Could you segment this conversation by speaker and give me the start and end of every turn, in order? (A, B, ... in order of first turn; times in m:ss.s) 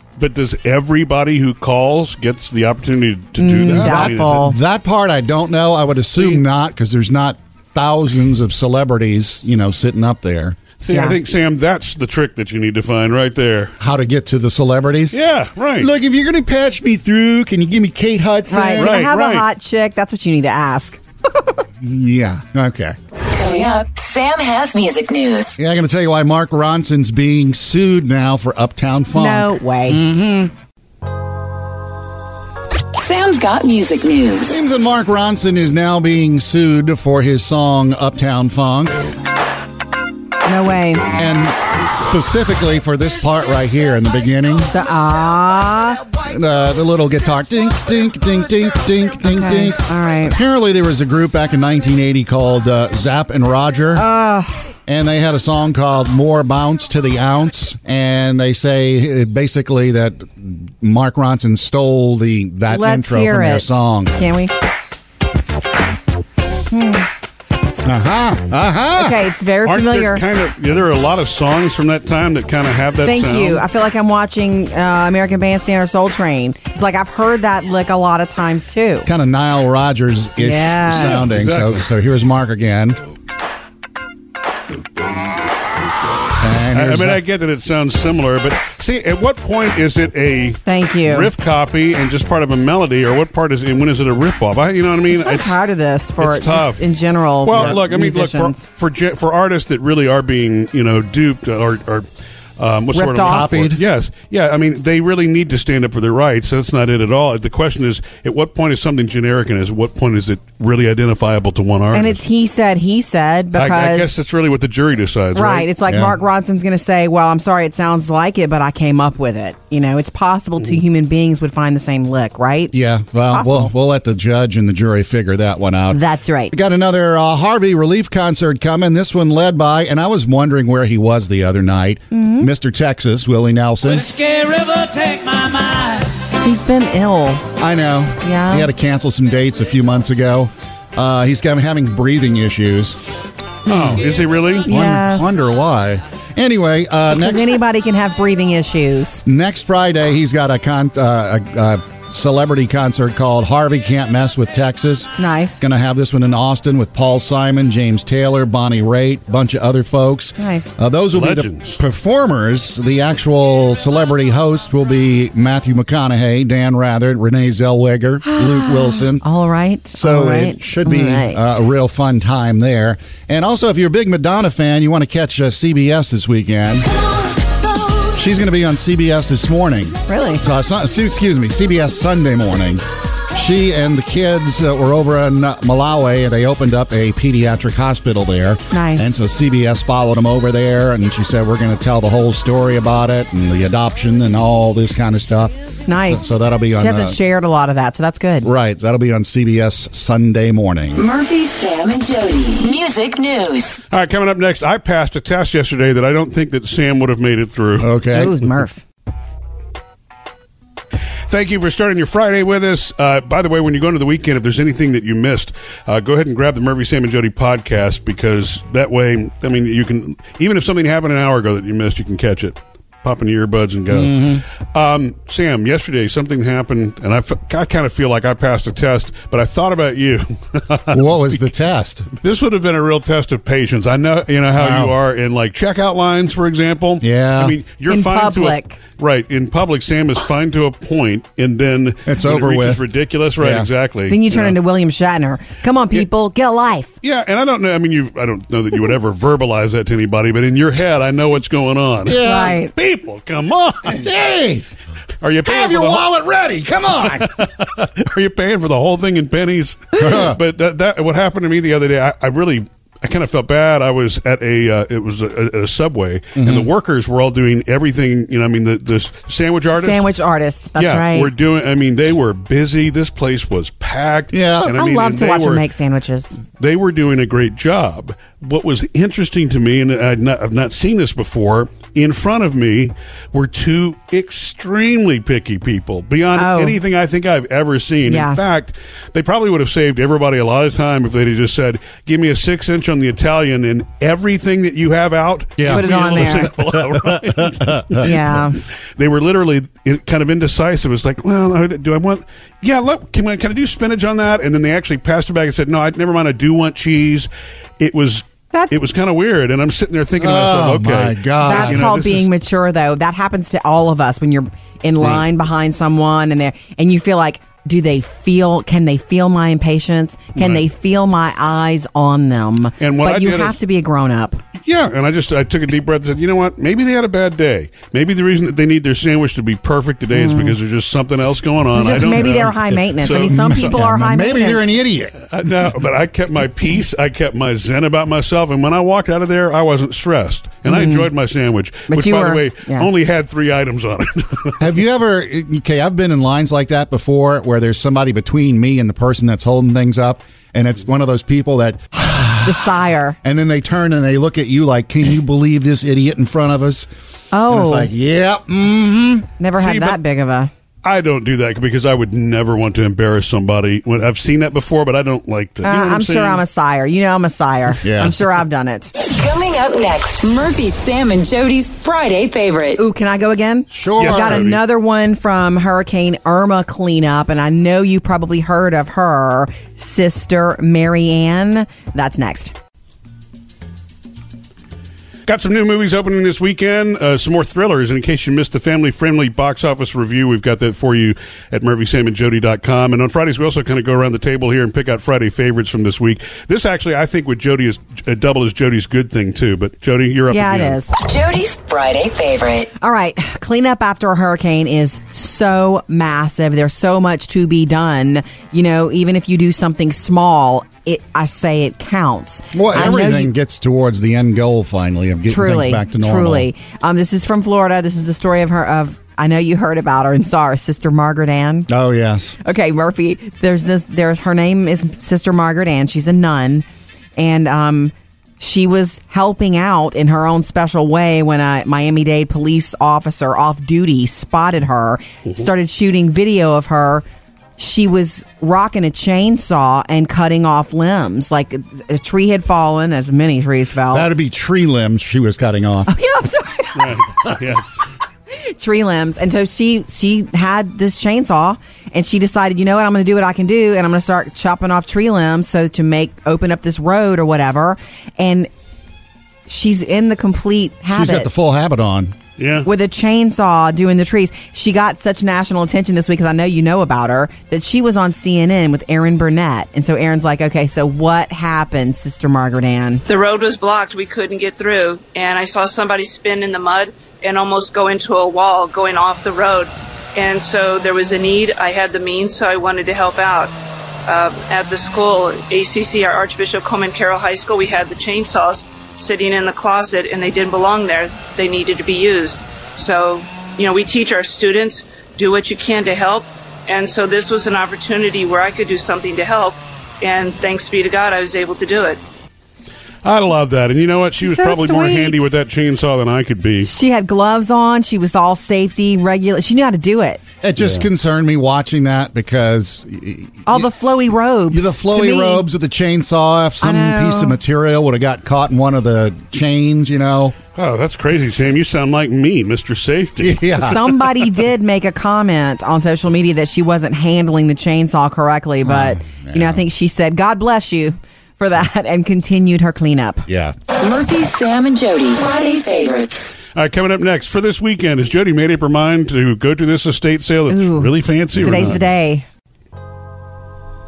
0:00.2-0:04.4 A
0:03.4-0:04.6 B
0:03.6-0:10.6 C
0:10.8-0:13.7 A
0:10.9-0:11.2 B
0:13.8-0:15.2 C
0:15.1-0:15.9 A
0:15.8-0:19.1 C
0:18.5-0:21.4 B
0:18.8-0:19.4 A
0:21.8-0:23.0 C
0:23.3-0:25.6 D
0:25.6-0:30.5 C
0:29.1-0:30.0 B
0:32.9-0:34.5 D
0:34.4-0:39.0 C
0:40.4-0:41.0 B
0:41.1-0:44.7 C
0:44.7-0:46.0 B
0:46.2-0:54.1 C
0:49.3-0:50.4 B
0:53.9-0:54.7 B
0:54.9-1:04.1 C
1:02.7-1:04.5 B
1:06.7-1:07.1 B
1:07.8-1:09.2 C
1:09.0-1:10.2 B
1:09.6-1:13.6 A
1:13.0-1:19.1 B
1:19.0-1:23.0 C
1:20.4-1:21.3 B
1:20.9-1:21.8 A
1:26.4-1:27.2 C
1:26.7-1:35.6 A
1:30.6-1:31.3 B
1:35.1-1:38.6 B
1:36.2-1:36.8 A
1:37.4-1:42.0 A
1:42.6-1:52.2 A
1:42.9-1:43.5 B
1:43.2-1:43.8 C
1:51.9-1:54.1 B
1:53.5-1:55.7 A
1:55.3-2:02.7 B
1:55.9-1:56.2 C
2:02.7-2:14.1 C
2:03.3-2:03.7 B
2:05.9-2:06.5 B
2:12.1-2:12.5 B
2:13.8-2:16.1 E
2:16.4-2:17.5 B
2:17.6-2:23.0 C
2:18.2-2:18.7 B
2:23.6-2:24.0 C
2:23.6-2:24.7 A
2:24.6-2:27.6 C
2:24.7-2:25.4 B
2:27.1-2:29.2 B
2:29.2-2:49.2 C
2:35.2-2:35.6 B
2:40.4-2:40.7 B
2:41.1-2:41.8 A
2:48.2-2:51.6 B
2:50.0-2:56.9 C
2:58.1-3:17.2 C
3:00.1-3:00.4 B
3:08.7-3:09.2 B
3:15.9-3:18.5 B
3:18.4-3:21.0 C
3:21.0-3:23.8 D
3:23.9-3:27.9 A
3:27.8-3:28.4 C
3:28.1-3:28.8 B
3:31.3-3:51.5 A
3:43.9-3:44.4 C
3:50.9-3:52.1 C
3:52.2-4:04.6 A
3:54.6-3:55.0 C
3:57.0-3:57.6 C
3:57.9-3:58.8 B
4:02.1-4:02.8 C
4:03.4-4:03.7 C
4:04.1-4:06.9 B
4:07.0-4:14.0 A
4:12.0-4:12.6 C
4:12.2-4:12.7 B
4:13.9-4:14.7 C
4:15.2-4:16.1 A
4:15.4-4:17.3 C
4:17.0-4:30.0 A
4:20.0-4:20.4 C
4:26.4-4:26.7 C
4:29.7-4:31.3 B
4:30.8-4:35.6 A
4:34.3-4:34.8 C
4:34.6-4:36.4 B
4:36.4-4:58.3 A
4:46.3-4:46.8 B
4:48.1-4:48.4 B
4:55.6-4:58.1 C
4:55.7-4:56.5 B
4:58.0-4:58.6 B
4:59.0-5:12.3 A
5:10.2-5:11.9 C
5:11.4-5:24.4 B
5:20.4-5:20.6 A
5:22.8-5:23.6 A
5:24.6-5:33.7 A
5:30.1-5:30.6 B
5:31.7-5:34.7 B
5:33.0-5:35.2 C
5:35.3-5:44.6 A
5:40.6-5:41.1 B
5:41.9-5:42.9 B
5:44.6-5:52.7 C
5:52.4-5:53.2 B
5:53.2-5:56.9 C
5:57.3-5:57.9 B
5:57.5-5:59.3 C
5:59.4-6:00.5 B
5:59.6-6:00.0 A
6:00.8-6:06.4 A
6:05.6-6:08.9 B
6:07.8-6:08.2 C
6:09.0-6:12.8 D
6:12.8-6:22.5 B
6:13.7-6:14.5 C
6:14.0-6:14.6 A
6:25.2-6:40.8 A
6:40.3-6:41.0 B
6:41.0-6:42.7 D
6:42.8-6:53.3 B
6:52.5-6:56.5 C
6:55.3-7:01.7 B
7:01.7-7:02.4 C
7:02.4-7:06.6 B
7:07.2-7:17.0 B
7:17.6-7:24.1 B
7:23.9-7:25.9 C
7:25.9-7:27.0 B
7:26.7-7:27.8 A
7:28.3-7:38.5 B
7:39.5-7:41.3 B
7:40.9-7:42.1 C
7:42.4-7:42.7 A
7:42.6-7:53.0 B
7:53.1-8:03.5 F
8:04.1-8:22.0 F
8:23.0-8:26.7 A
8:24.2-8:25.3 B
8:26.6-8:30.2 B
8:30.4-8:33.7 C
8:30.6-8:30.8 A
8:33.4-8:35.4 B
8:34.5-8:40.4 C
8:36.6-8:37.4 B
8:40.5-8:43.7 A
8:43.2-8:44.3 C
8:43.6-8:53.2 B
8:48.6-8:49.6 C
8:53.3-8:53.5 C
8:53.8-8:56.3 D
8:56.5-9:01.8 A
9:00.5-9:02.2 B
9:01.4-9:01.8 C